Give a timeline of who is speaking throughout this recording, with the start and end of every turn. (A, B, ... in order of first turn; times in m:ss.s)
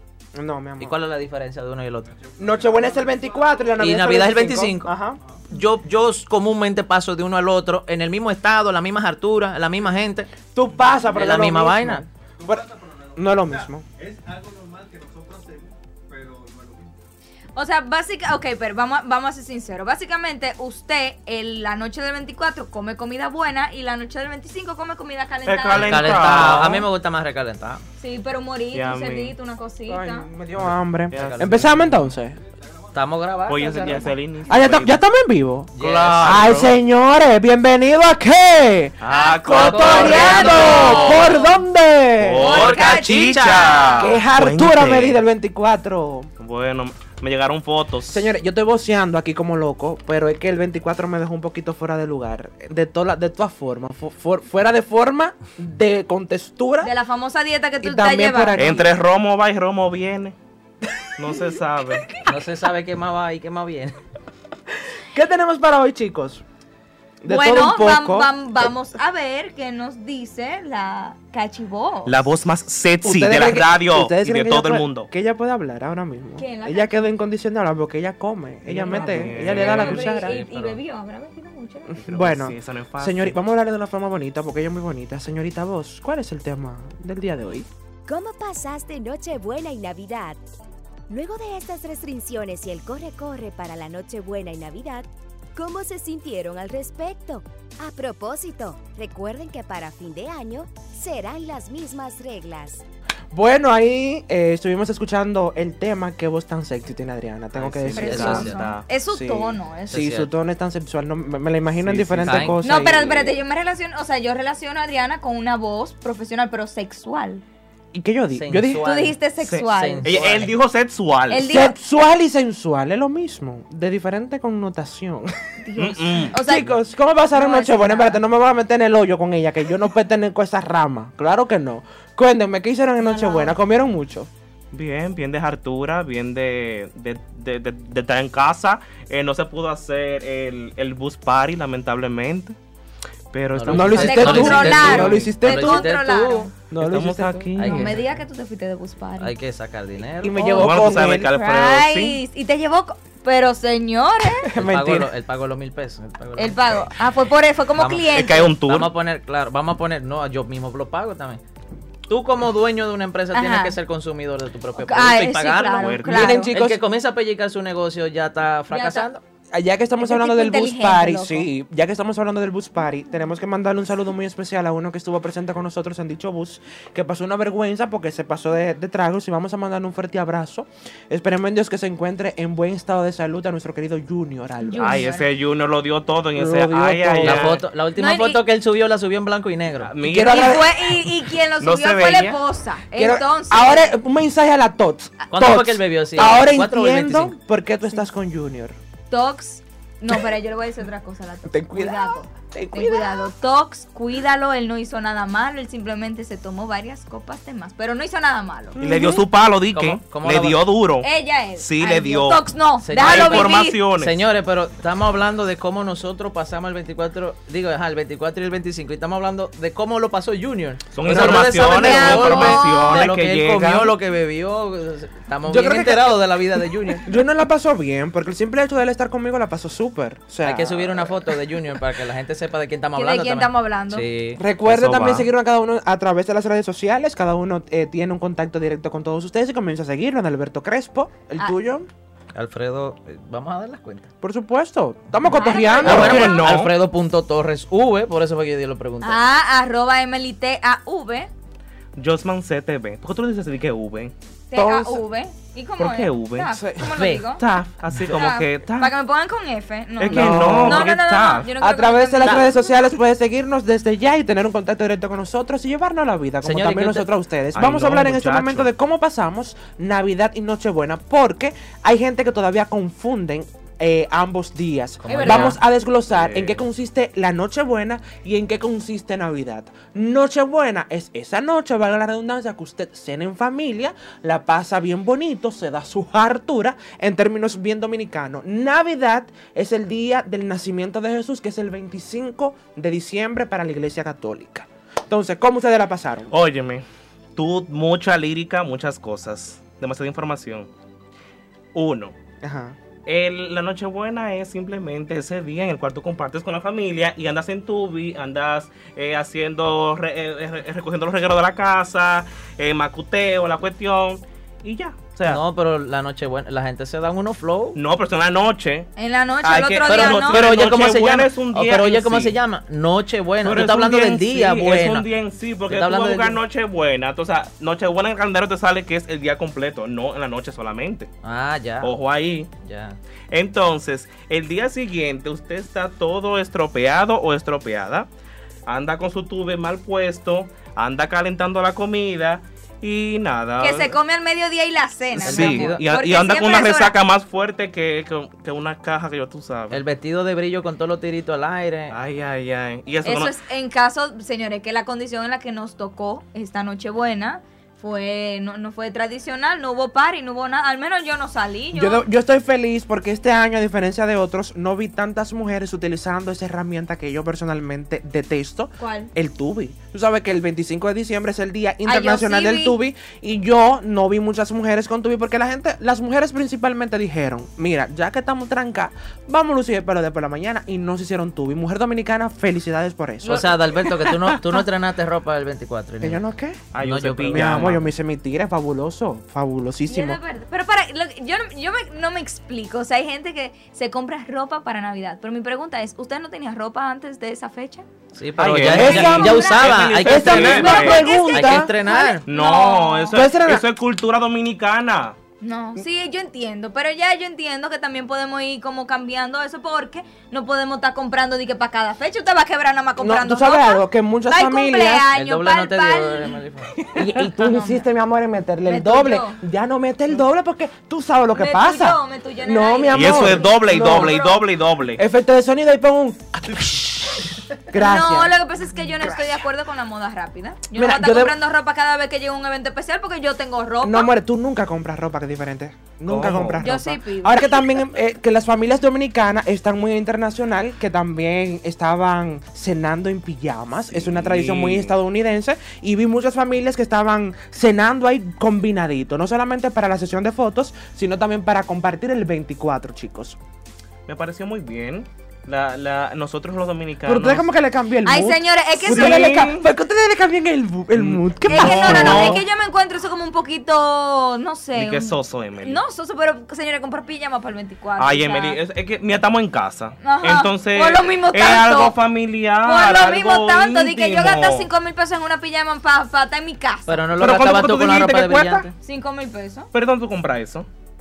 0:00.3-0:00.9 A
0:00.8-0:02.2 B
0:02.3-0:02.9 C
0:02.4-0:05.2 A
0:03.8-0:04.9 B
0:05.5-0:10.4 B
0:10.4-0:13.8 A
0:11.1-0:12.0 B
0:14.1-0:16.9 C
0:17.5-0:26.4 D
0:25.4-0:26.9 E
0:25.7-0:27.8 B
0:28.0-0:30.3 D
0:28.7-0:29.3 E
0:29.9-0:32.4 A
0:30.6-0:32.0 B
0:31.1-0:31.7 E
0:32.9-0:34.1 B
0:33.5-0:35.0 E
0:34.5-0:42.5 A
0:35.7-0:36.6 B
0:35.8-0:36.7 E
0:39.0-0:41.4 E
0:39.1-0:41.6 D
0:39.5-0:41.1 B
0:42.2-0:45.2 E
0:42.4-0:44.2 D
0:42.4-0:43.9 B
0:44.0-0:46.3 A
0:46.4-0:48.3 E
0:48.1-0:56.9 A
0:56.8-0:58.6 D
0:57.8-0:58.9 A
0:58.6-1:00.4 E
1:01.2-1:02.2 E
1:02.2-1:04.0 B
1:05.0-1:06.4 A
1:07.2-1:08.7 A
1:07.2-1:12.2 D
1:12.0-1:15.1 E
1:13.0-1:20.4 A
1:16.4-1:17.1 D
1:18.6-1:20.3 E
1:18.8-1:20.8 B
1:19.7-1:22.0 D
1:21.9-1:27.7 A
1:22.0-1:23.4 E
1:28.1-1:30.4 F
1:31.1-1:42.8 F
1:43.3-1:48.5 A
1:47.5-1:48.7 B
1:47.9-1:48.8 E
1:47.9-1:50.0 D
1:49.1-1:53.3 A
1:49.9-1:50.3 B
1:51.7-1:52.9 E
1:52.1-1:52.6 B
1:52.6-1:57.4 D
1:57.9-1:58.9 A
1:58.3-2:00.6 B
1:58.8-2:00.2 D
1:59.4-2:01.5 E
2:01.3-2:01.8 D
2:01.4-2:05.3 A
2:05.6-2:06.7 D
2:05.8-2:06.4 E
2:06.3-2:14.3 A
2:07.3-2:08.2 D
2:13.0-2:13.6 D
2:14.7-2:22.5 E
2:23.3-2:25.4 E
2:23.5-2:26.5 B
2:23.7-2:25.9 A
2:23.9-2:26.5 D
2:26.7-2:27.5 A
2:26.7-2:28.0 E
2:27.6-2:28.0 B
2:27.6-2:29.3 D
2:29.2-2:30.3 B
2:30.2-2:31.3 A
2:30.3-2:34.5 D
2:30.6-2:32.2 E
2:34.5-2:35.1 A
2:34.6-2:36.9 B
2:36.4-2:38.5 D
2:37.7-2:41.4 B
2:38.1-2:38.9 E
2:42.1-2:49.2 B
2:43.3-2:43.8 D
2:44.8-2:46.5 D
2:45.8-2:46.4 E
2:46.0-2:46.8 A
2:48.7-2:49.1 D
2:49.5-3:05.0 A
2:50.0-2:51.5 D
3:04.6-3:05.3 D
3:04.8-3:07.6 E
3:06.4-3:07.6 A
3:07.2-3:09.9 B
3:08.0-3:08.4 D
3:09.8-3:10.7 E
3:10.0-3:10.7 A
3:10.2-3:13.9 D
3:11.6-3:12.4 E
3:12.9-3:18.8 A
3:15.3-3:17.4 B
3:19.1-3:28.8 D
3:21.4-3:23.3 A
3:28.8-3:29.2 A
3:28.8-3:32.4 E
3:29.7-3:30.7 B
3:31.0-3:33.8 D
3:32.8-3:47.2 B
3:33.0-3:34.2 E
3:40.9-3:44.0 E
3:41.2-3:41.6 A
3:41.7-3:43.1 D
3:45.4-3:51.3 A
3:50.4-3:54.5 B
3:53.0-3:54.1 D
3:54.4-4:01.9 A
3:54.6-3:55.3 E
4:02.3-4:04.1 B
4:04.2-4:06.4 A
4:05.3-4:06.6 D
4:05.8-4:06.7 E
4:05.8-4:09.2 B
4:09.0-4:11.3 D
4:12.0-4:14.1 E
4:14.5-4:17.4 D
4:14.5-4:15.0 A
4:15.8-4:16.6 E
4:16.5-4:16.9 A
4:16.9-4:17.3 B
4:17.3-4:18.9 E
4:18.0-4:22.8 D
4:20.0-4:21.5 E
4:20.1-4:20.9 A
4:21.6-4:56.3 A
4:26.4-4:27.1 B
4:27.5-4:28.7 E
4:35.0-4:35.6 B
4:35.0-4:35.6 D
4:36.1-4:36.6 E
4:56.3-4:56.8 E
4:57.4-5:00.7 E
5:01.7-5:02.1 E
5:02.4-5:02.8 A
5:03.0-5:15.4 E
5:15.2-5:17.8 B
5:17.7-5:18.9 E
5:19.0-5:20.5 D
5:19.4-5:22.4 E
5:19.8-5:25.1 B
5:23.4-5:31.1 E
5:25.7-5:26.4 B
5:31.2-5:31.9 B
5:31.8-5:32.5 E
5:32.6-5:33.0 B
5:33.3-5:38.1 E
5:38.7-5:44.0 E
5:43.6-5:46.9 D
5:45.1-5:49.8 E
5:45.2-5:45.8 B
5:49.7-5:52.0 B
5:51.9-5:53.3 E
5:53.0-6:02.0 D
6:01.7-6:24.6 A
6:08.8-6:09.1 D
6:11.8-6:12.8 D
6:23.2-6:26.2 B
6:23.3-6:23.6 D
6:26.0-6:26.6 A
6:26.7-6:27.8 E
6:26.8-6:27.9 B
6:27.3-6:30.2 A
6:29.9-6:37.8 D
6:38.1-6:42.2 B
6:38.4-6:41.1 E
6:38.7-6:41.7 A
6:38.8-6:43.2 D
6:42.3-6:45.2 E
6:43.1-6:43.6 A
6:45.4-6:56.4 D
6:53.0-6:55.1 A
6:55.1-6:56.9 B
6:56.9-7:04.3 A
6:57.1-6:57.8 D
6:58.6-6:59.4 D
7:01.3-7:04.4 D
7:02.9-7:05.0 E
7:05.0-7:08.3 A
7:07.8-7:14.1 D
7:10.7-7:11.4 A
7:13.8-7:33.4 A
7:16.1-7:16.7 E
7:16.6-7:17.7 D
7:23.9-7:25.0 E
7:34.1-7:37.5 E
7:37.0-7:42.4 A
7:38.0-7:39.4 D
7:38.8-7:39.6 E
7:40.9-7:42.4 E
7:41.4-7:48.6 D
7:44.7-7:45.8 E
7:48.0-7:54.7 E
7:50.0-7:52.0 D
7:52.6-7:57.0 D
7:56.9-7:58.7 B
7:57.2-7:58.7 E
7:58.8-7:59.7 D
7:59.7-8:00.7 E